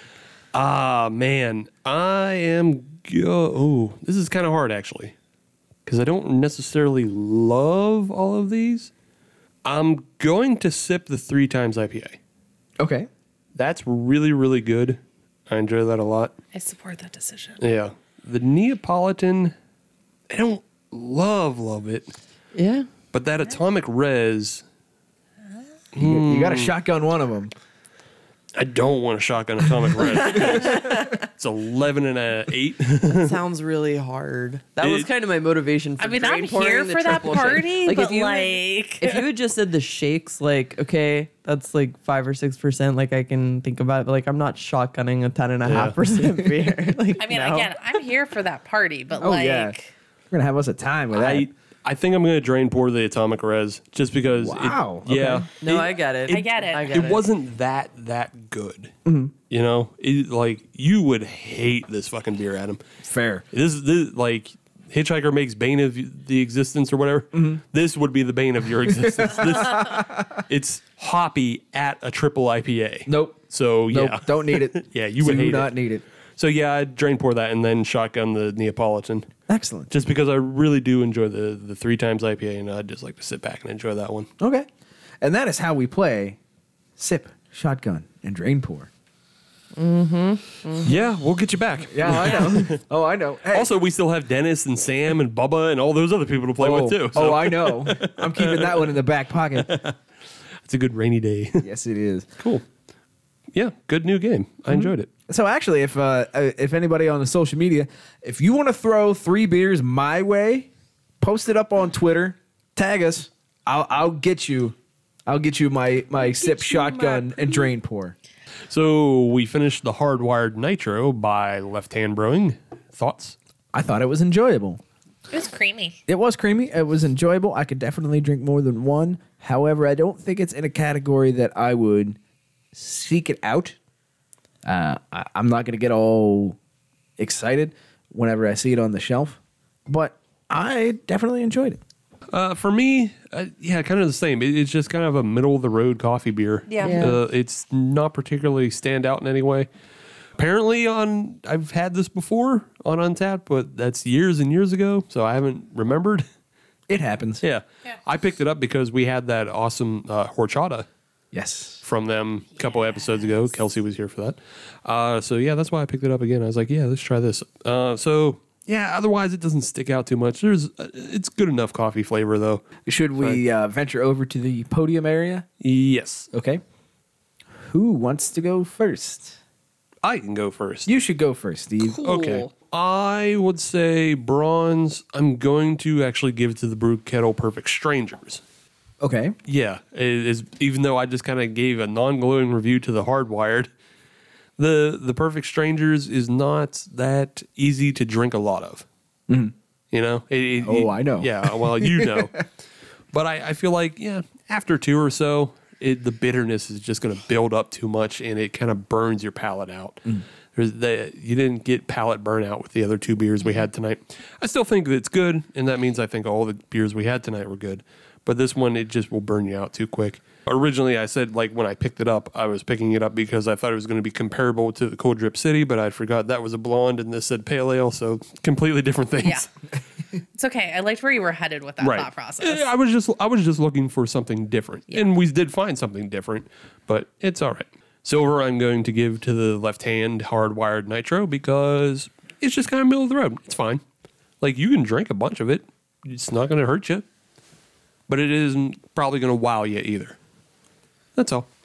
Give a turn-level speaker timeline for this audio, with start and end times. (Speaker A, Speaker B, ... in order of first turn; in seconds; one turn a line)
Speaker A: 0.5-5.2
Speaker A: 5.9-8.9
Speaker A: 9.7-12.2
Speaker B: 12.8-13.1
Speaker A: 13.6-16.3
Speaker C: 16.5-17.6
Speaker A: 17.6-19.5
Speaker A: 20.3-22.1
Speaker D: 22.5-22.9
Speaker A: 23.1-24.6
Speaker A: 25.9-26.8
Speaker B: 26.0-27.5
Speaker A: 28.6-33.4
Speaker D: 30.0-31.2
Speaker D: 33.1-47.7
Speaker A: 34.8-35.1
Speaker C: 36.0-39.3
Speaker A: 45.6-46.0
Speaker C: 47.2-49.9
Speaker B: 49.2-49.8
Speaker B: 50.3-51.5
Speaker A: 51.1-58.9
Speaker B: 54.4-55.5
Speaker D: 55.6-57.2
Speaker C: 56.3-57.2
Speaker B: 59.0-59.3
Speaker A: 59.5-62.8
Speaker B: 63.0-63.4
Speaker A: 63.5-75.7
Speaker B: 67.3-67.6
Speaker B: 69.0-70.4
Speaker B: 73.1-76.0
Speaker A: 76.4-79.3
Speaker B: 79.5-79.9
Speaker A: 79.9-84.3
Speaker B: 84.4-84.7
Speaker B: 85.2-86.4
Speaker B: 87.0-88.9
Speaker D: 89.8-90.9
Speaker A: 90.8-92.8
Speaker B: 91.9-93.7
Speaker A: 93.5-99.0
Speaker B: 96.6-99.7
Speaker A: 99.6-100.0
Speaker A: 100.6-101.7
Speaker B: 101.6-102.3
Speaker A: 103.5-105.1
Speaker B: 104.7-110.7
Speaker B: 111.2-114.8
Speaker B: 115.3-118.2
Speaker D: 116.2-117.7
Speaker A: 118.7-123.4
Speaker B: 123.7-124.8
Speaker C: 125.3-126.0
Speaker B: 126.1-132.2
Speaker B: 132.7-133.8
Speaker B: 134.6-136.6
Speaker B: 137.2-141.8
Speaker A: 142.3-149.7
Speaker C: 146.7-147.1
Speaker D: 146.8-147.2
Speaker A: 150.4-156.3
Speaker B: 156.9-157.4
Speaker A: 157.4-160.9
Speaker B: 161.3-161.8
Speaker A: 161.8-172.6
Speaker B: 172.9-175.5
Speaker A: 173.2-173.4
Speaker A: 175.6-176.3
Speaker B: 176.3-176.6
Speaker B: 177.5-179.4
Speaker A: 180.0-180.9
Speaker B: 180.9-182.1
Speaker A: 182.0-188.4
Speaker C: 182.1-182.5
Speaker B: 189.0-189.4
Speaker A: 189.5-193.7
Speaker A: 194.6-198.9
Speaker B: 199.3-199.5
Speaker A: 199.9-202.5
Speaker B: 200.6-202.3
Speaker A: 203.1-229.5
Speaker C: 229.2-229.5
Speaker C: 230.3-232.7
Speaker A: 231.8-243.8
Speaker A: 244.4-247.1
Speaker A: 248.1-250.2
Speaker A: 251.2-251.5